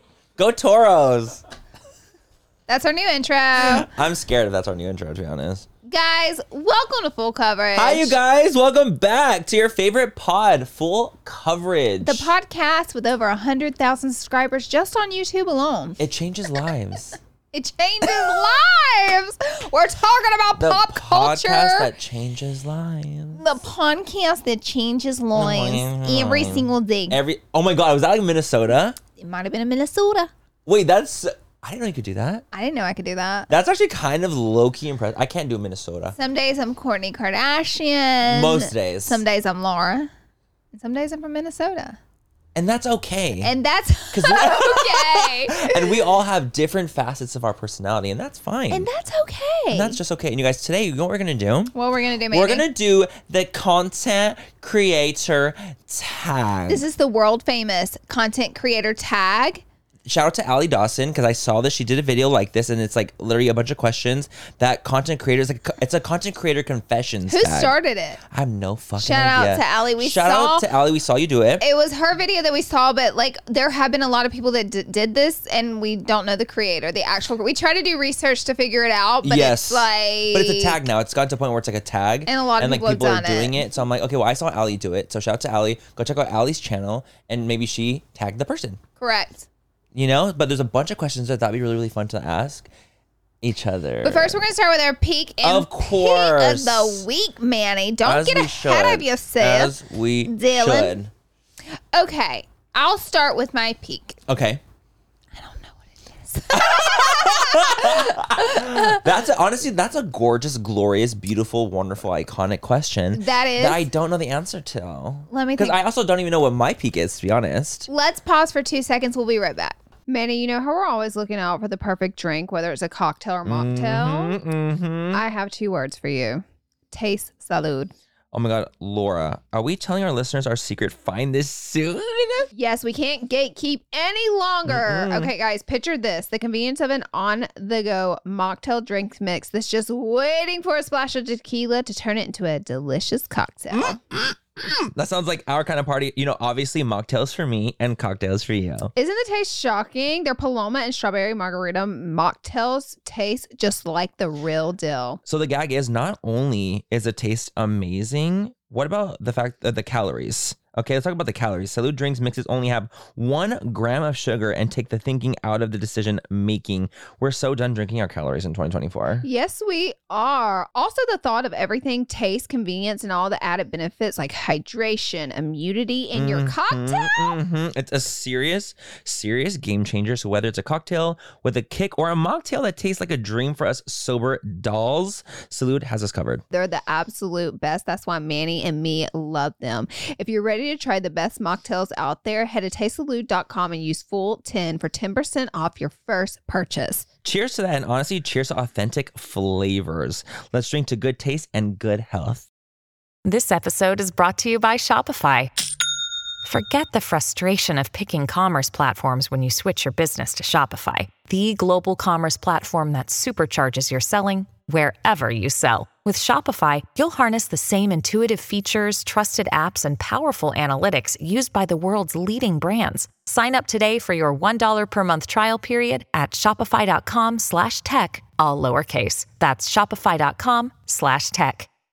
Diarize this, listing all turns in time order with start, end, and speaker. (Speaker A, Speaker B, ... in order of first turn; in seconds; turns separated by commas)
Speaker A: 0.4-1.4, Speaker B: 2.7-3.9, Speaker A: 3.6-5.7, Speaker B: 5.9-8.2, Speaker A: 7.8-12.3, Speaker B: 12.0-16.0, Speaker A: 16.0-17.2, Speaker B: 17.5-21.9, Speaker A: 20.6-23.4, Speaker B: 23.4-27.2, Speaker A: 25.4-29.0, Speaker B: 29.2-30.3, Speaker A: 30.7-32.5, Speaker B: 32.5-33.5, Speaker A: 33.5-36.2, Speaker B: 36.2-40.1, Speaker A: 38.2-39.2, Speaker B: 40.7-42.0, Speaker A: 42.5-43.5, Speaker B: 43.4-46.0, Speaker A: 44.1-48.9, Speaker B: 48.7-50.0, Speaker A: 49.7-51.7, Speaker B: 51.7-52.6, Speaker A: 52.3-56.8, Speaker B: 56.7-59.6, Speaker A: 60.1-67.7, Speaker B: 67.3-68.2, Speaker A: 68.3-71.7, Speaker B: 69.0-70.6, Speaker B: 71.6-80.8, Speaker A: 79.2-88.8, Speaker B: 82.3-83.6, Speaker B: 89.0-89.5, Speaker A: 90.0-92.7, Speaker A: 93.4-94.4, Speaker B: 94.0-99.7, Speaker A: 95.4-97.0, Speaker A: 98.0-101.1, Speaker B: 100.3-101.0, Speaker B: 101.9-104.2, Speaker A: 104.3-104.6, Speaker B: 105.3-109.0, Speaker A: 106.5-117.9, Speaker B: 113.2-113.9, Speaker B: 115.3-115.8, Speaker B: 117.9-124.4, Speaker A: 123.5-125.2, Speaker B: 125.1-127.9, Speaker A: 128.3-132.5, Speaker B: 132.6-144.0, Speaker A: 134.7-135.3, Speaker A: 143.7-148.9, Speaker B: 149.0-155.2, Speaker A: 155.3-169.2, Speaker B: 169.2-177.4, Speaker A: 176.1-186.4, Speaker B: 186.5-197.1, Speaker A: 197.2-202.5, Speaker C: 203.2-205.5, Speaker C: 206.4-231.7